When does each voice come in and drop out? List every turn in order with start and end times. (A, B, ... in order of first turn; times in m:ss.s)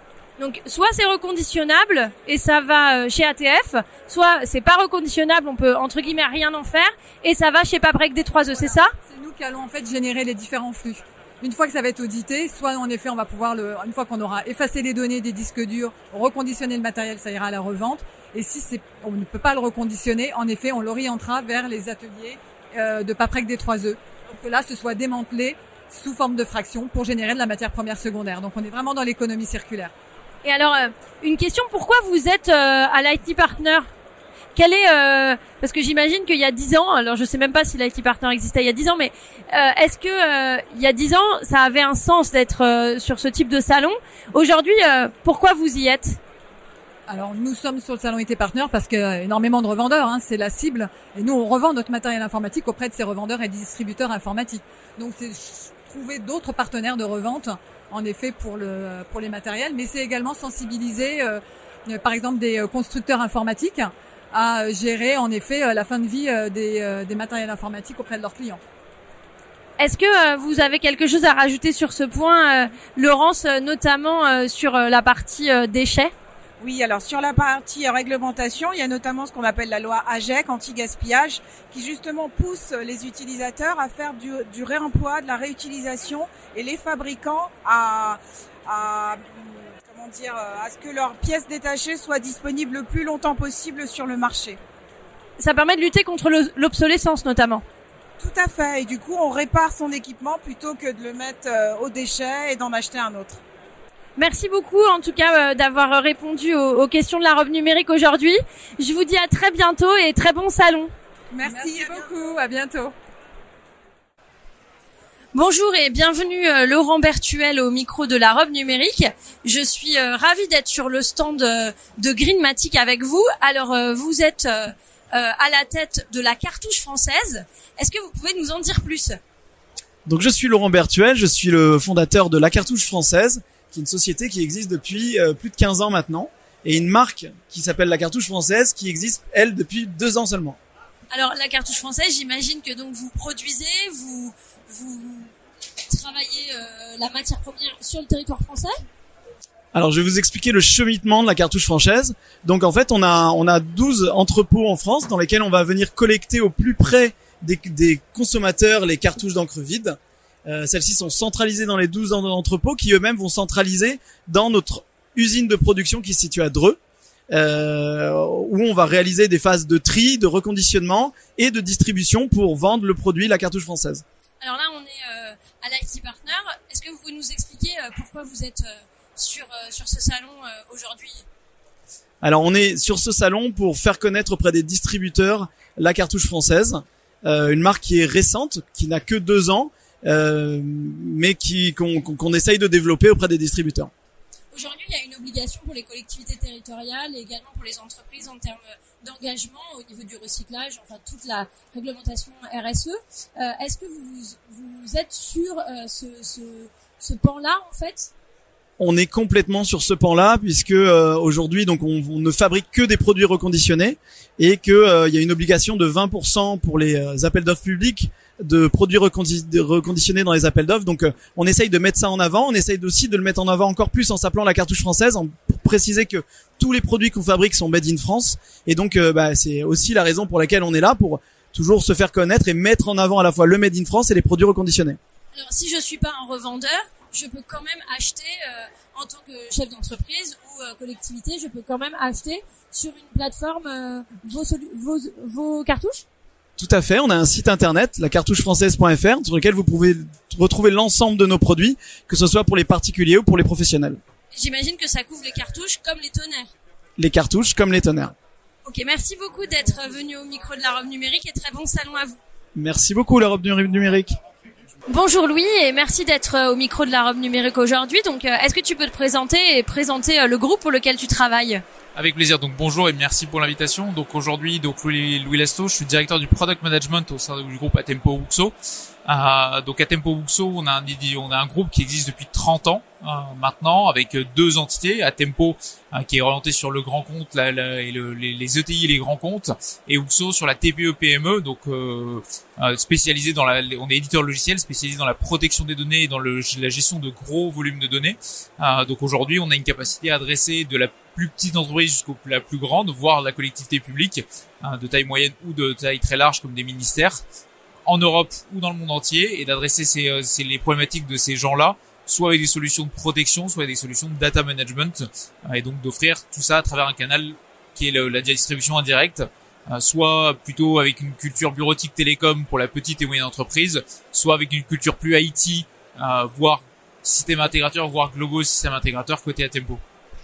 0:00.4-0:08.9 A
0:08.5-0:29.9 B
0:30.4-0:33.9 A
0:34.6-0:46.2 A
0:47.1-1:08.6 B
1:09.8-1:16.1 A
1:16.6-1:34.6 C
1:35.4-1:37.6 A
1:38.2-1:43.4 C
1:44.2-1:50.9 A
1:51.3-1:52.1 C
1:51.4-1:52.9 B
1:55.3-2:09.2 A
2:10.0-2:20.6 D
2:21.1-2:25.3 A
2:25.9-2:28.7 A
2:29.7-2:40.0 D
2:40.5-2:46.8 D
2:47.3-2:54.0 D
2:54.4-3:01.2 A
3:02.2-3:13.9 D
3:14.5-3:28.1 A
3:28.8-3:55.0 D
3:55.3-4:06.0 A
4:06.6-4:14.0 D
4:14.3-4:16.5 A
4:17.0-4:18.1 D
4:18.6-4:22.2 A
4:22.5-4:24.2 D
4:24.9-4:31.6 A
4:32.0-4:38.5 E
4:39.0-5:07.2 E
5:07.9-5:29.8 E